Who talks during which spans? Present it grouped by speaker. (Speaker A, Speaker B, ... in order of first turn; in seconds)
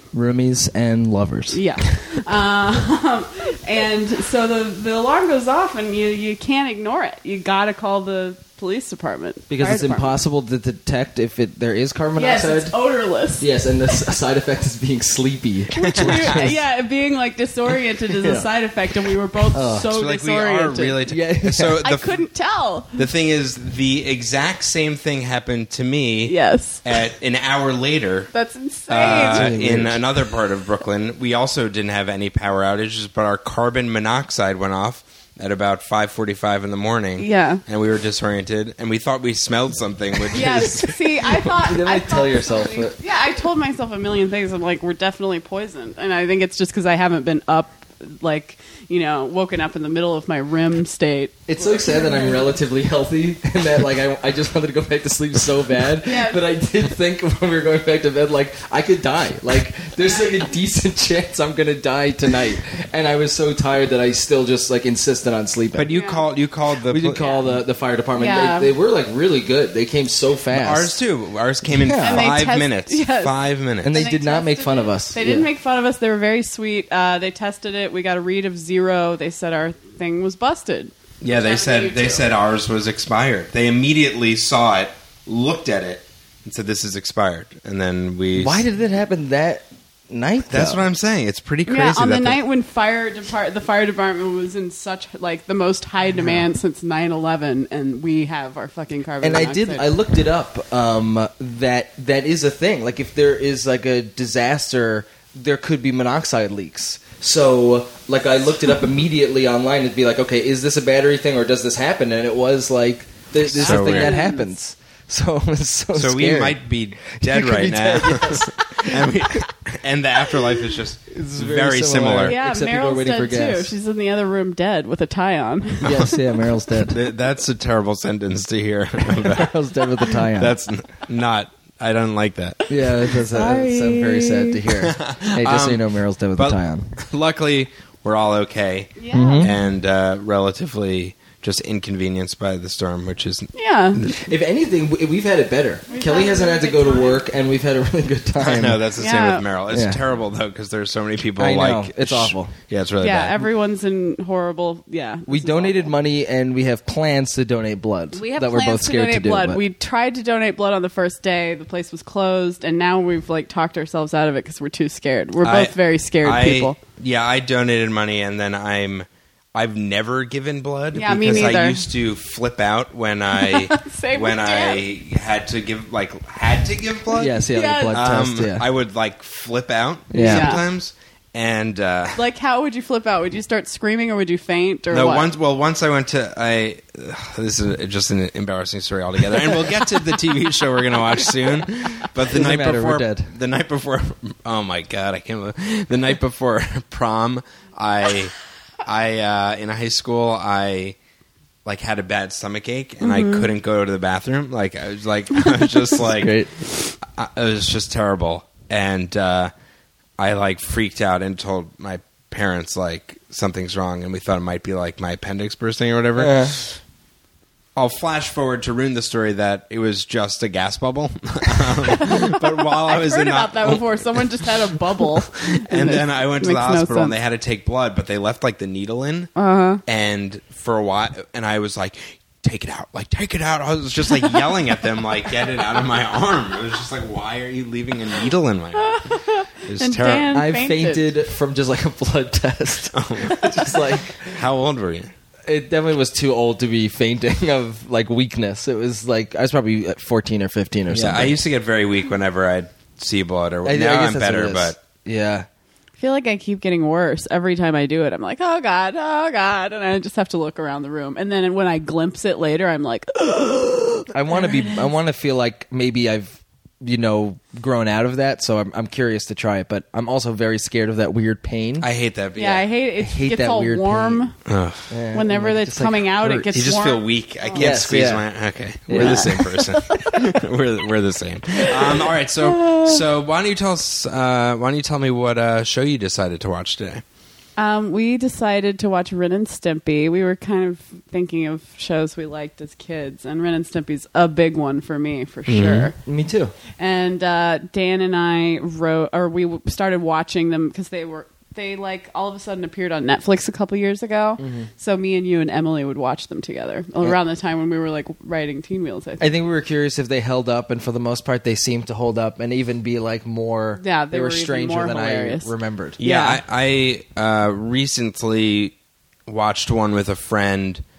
Speaker A: 0.1-1.9, 9.5-12.8, 13.4-16.6, 18.2-18.5, 19.5-19.9, 21.1-21.8, 29.3-30.0, 41.4-43.0, 51.5-65.9, 66.9-71.0, 71.7-72.3, 73.8-75.5, 88.3-90.8, 99.2-119.4, 121.1-123.7, 125.8-127.0, 129.2-130.6, 132.7-136.9, 139.1-139.5, 144.2-148.8, 149.7-150.0, 151.4-152.5, 155.3-159.6, 177.1-178.7, 180.1-180.6, 192.2-193.3, 206.1-206.5, 216.2-216.6, 240.3-244.2, 245.4-251.4, 253.6-255.5, 264.1-271.9, 273.0-274.3, 274.9-276.5, 277.6-278.2, 278.9-279.7, 295.5-296.5, 304.4-304.7, 309.2-316.0
Speaker B: 1.5-10.2, 12.2-14.0, 15.7-21.0, 21.8-23.0, 26.2-26.8, 28.3-29.5, 37.2-37.6, 40.3-52.5, 56.0-56.4, 60.0-60.5, 65.9-66.2, 67.2-67.5, 68.2-68.7, 72.0-73.3, 73.9-82.3, 91.7-99.9, 113.5-114.5, 122.2-126.2, 133.3-134.6, 139.0-139.5, 143.5-144.0, 145.9-147.2, 149.0-149.4, 153.0-155.9, 158.1-166.8, 170.9-171.9, 173.3-174.8, 177.5-177.9, 180.2-180.6, 182.2-185.3, 203.0-203.5, 221.8-227.1, 229.3-229.8, 238.7-241.1, 256.0-264.8, 272.4-274.4, 275.1-277.8, 278.9-280.2, 281.6-283.0, 287.6-295.9, 296.8-309.3, 313.8-316.4
Speaker C: 15.8-16.4, 19.9-22.3, 22.9-28.3, 28.9-41.3, 65.7-67.3, 70.5-74.1, 81.2-88.6, 90.5-92.4, 113.5-114.1, 115.9-122.3, 126.8-132.6, 134.8-144.2, 148.4-153.4, 165.4-177.4, 177.9-182.2, 184.9-200.9, 201.6-206.4, 207.0-209.5, 210.2-216.8, 217.8-229.3, 229.8-239.1, 239.7-240.4, 242.9-245.1, 250.9-254.8, 271.8-272.7, 274.4-274.9, 276.5-287.0, 316.0-318.7, 319.3-320.8